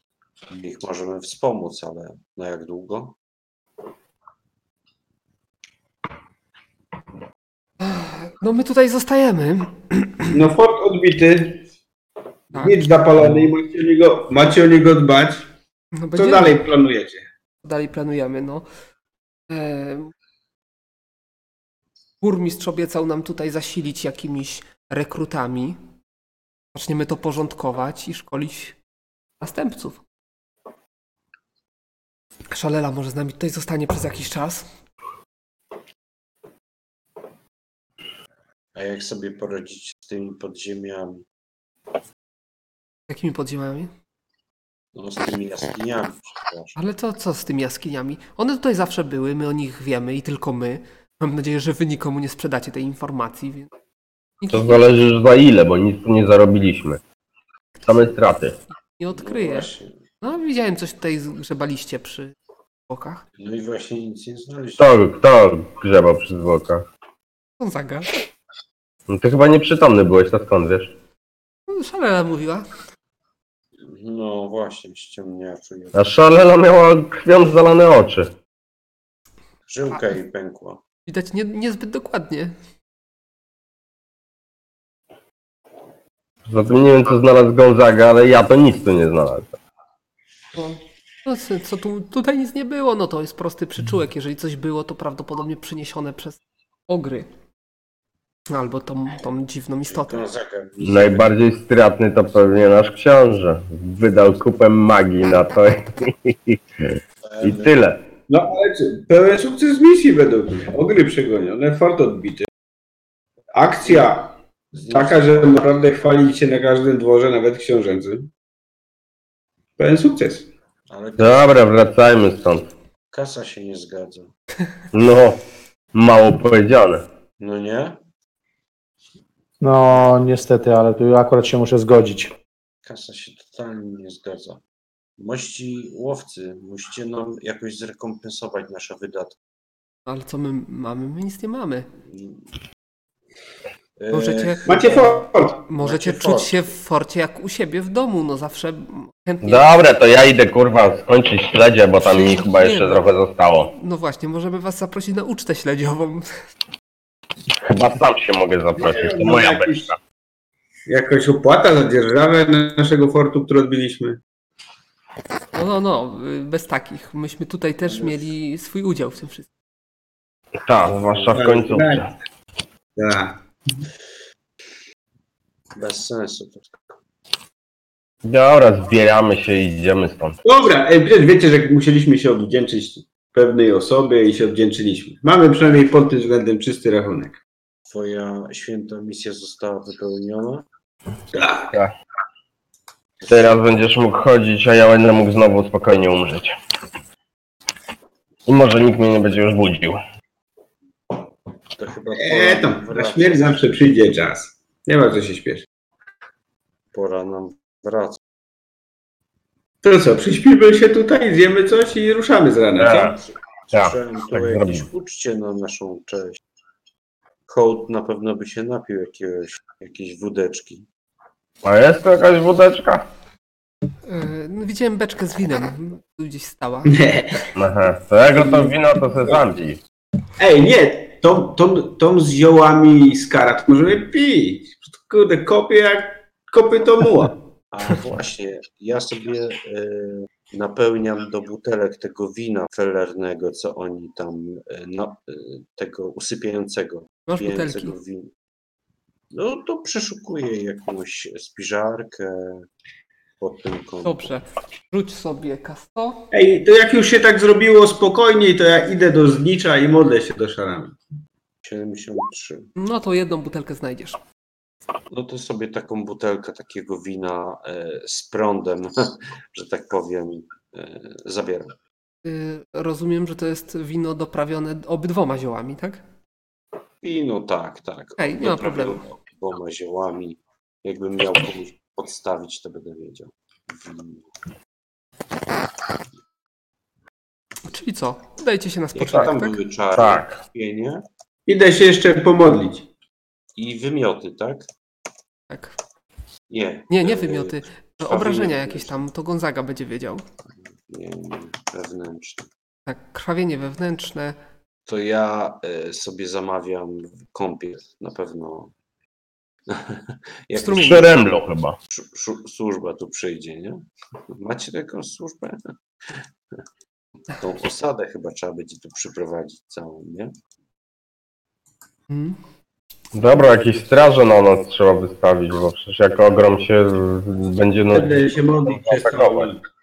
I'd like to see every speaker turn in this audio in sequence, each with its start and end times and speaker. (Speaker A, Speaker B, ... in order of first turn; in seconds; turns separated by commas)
Speaker A: 0.5-3.2, Speaker B: 7.8-10.4, Speaker C: 10.3-11.6, Speaker B: 12.5-13.5, Speaker C: 12.5-15.5, Speaker B: 16.0-16.6, Speaker C: 16.2-17.2, Speaker B: 17.6-18.7, Speaker B: 19.5-20.1, Speaker B: 22.2-25.8, Speaker B: 26.7-28.8, Speaker B: 29.4-30.0, Speaker B: 32.5-34.7, Speaker A: 38.8-41.2, Speaker B: 43.1-43.9, Speaker A: 45.0-46.8, Speaker B: 46.8-53.7, Speaker B: 54.4-54.9, Speaker D: 54.5-57.0, Speaker D: 57.9-58.6, Speaker B: 59.0-62.4, Speaker A: 59.1-59.9, Speaker B: 62.9-63.2, Speaker A: 63.4-64.9, Speaker D: 64.8-66.8, Speaker B: 67.6-68.1, Speaker D: 69.1-70.9, Speaker B: 71.7-72.7, Speaker A: 73.8-76.0, Speaker D: 76.0-78.3, Speaker A: 79.7-80.8, Speaker B: 81.1-82.5, Speaker D: 86.5-89.5, Speaker B: 90.5-97.3, Speaker B: 98.5-100.2, Speaker A: 99.9-101.3, Speaker D: 100.8-108.0, Speaker A: 107.2-107.8, Speaker C: 108.3-112.5, Speaker C: 113.5-118.3, Speaker A: 113.8-114.1, Speaker A: 114.8-115.6, Speaker C: 119.8-120.5, Speaker A: 120.9-121.9, Speaker D: 121.2-122.7, Speaker A: 123.1-124.3, Speaker D: 124.9-125.4, Speaker D: 125.9-127.0, Speaker A: 127.4-128.0, Speaker E: 129.6-132.3, Speaker A: 132.8-134.6, Speaker A: 135.2-139.4, Speaker B: 140.1-141.9, Speaker A: 142.0-142.4, Speaker A: 144.0-145.1, Speaker B: 144.1-149.8, Speaker C: 144.7-145.6, Speaker A: 145.7-146.7, Speaker D: 149.4-153.7, Speaker B: 152.0-153.1, Speaker B: 153.7-156.3, Speaker D: 157.7-160.0, Speaker C: 158.8-159.9, Speaker C: 160.9-164.2, Speaker B: 165.5-169.5, Speaker A: 167.8-168.3, Speaker D: 170.7-172.1, Speaker A: 171.1-171.5, Speaker C: 171.3-172.1, Speaker C: 173.0-173.8, Speaker A: 175.8-176.8, Speaker D: 178.2-180.4, Speaker C: 180.4-187.4, Speaker A: 187.9-190.7, Speaker C: 191.3-191.8, Speaker D: 193.3-196.6, Speaker D: 198.5-200.0, Speaker A: 201.7-203.6, Speaker C: 202.2-205.7, Speaker A: 206.9-208.2, Speaker C: 209.8-213.2, Speaker D: 212.8-213.2, Speaker D: 213.7-214.9, Speaker A: 213.7-216.4, Speaker A: 217.5-220.9, Speaker D: 221.6-223.1, Speaker B: 224.1-226.9, Speaker C: 226.8-227.5, Speaker D: 227.6-229.8, Speaker C: 230.4-237.4, Speaker A: 237.7-248.3, Speaker B: 247.3-247.9, Speaker A: 249.3-252.7, Speaker A: 253.4-254.2, Speaker B: 254.0-256.2, Speaker C: 256.3-261.0, Speaker A: 261.6-262.7, Speaker B: 262.8-264.2, Speaker A: 265.1-271.8, Speaker B: 272.2-276.0, Speaker A: 277.0-284.3, Speaker B: 278.2-279.0, Speaker B: 287.6-289.6, Speaker A: 288.9-291.0, Speaker D: 290.0-290.4, Speaker C: 291.5-292.9, Speaker A: 293.6-294.7, Speaker B: 295.5-295.8, Speaker A: 296.5-299.0, Speaker B: 296.9-300.2, Speaker A: 300.9-302.5, Speaker B: 302.9-304.4, Speaker A: 304.9-308.7, Speaker A: 309.7-311.4, Speaker B: 310.6-311.1, Speaker D: 310.7-311.8, Speaker A: 311.9-316.2, Speaker A: 317.3-320.3, Speaker B: 322.1-322.4, Speaker D: 323.1-329.5, Speaker C: 327.9-329.6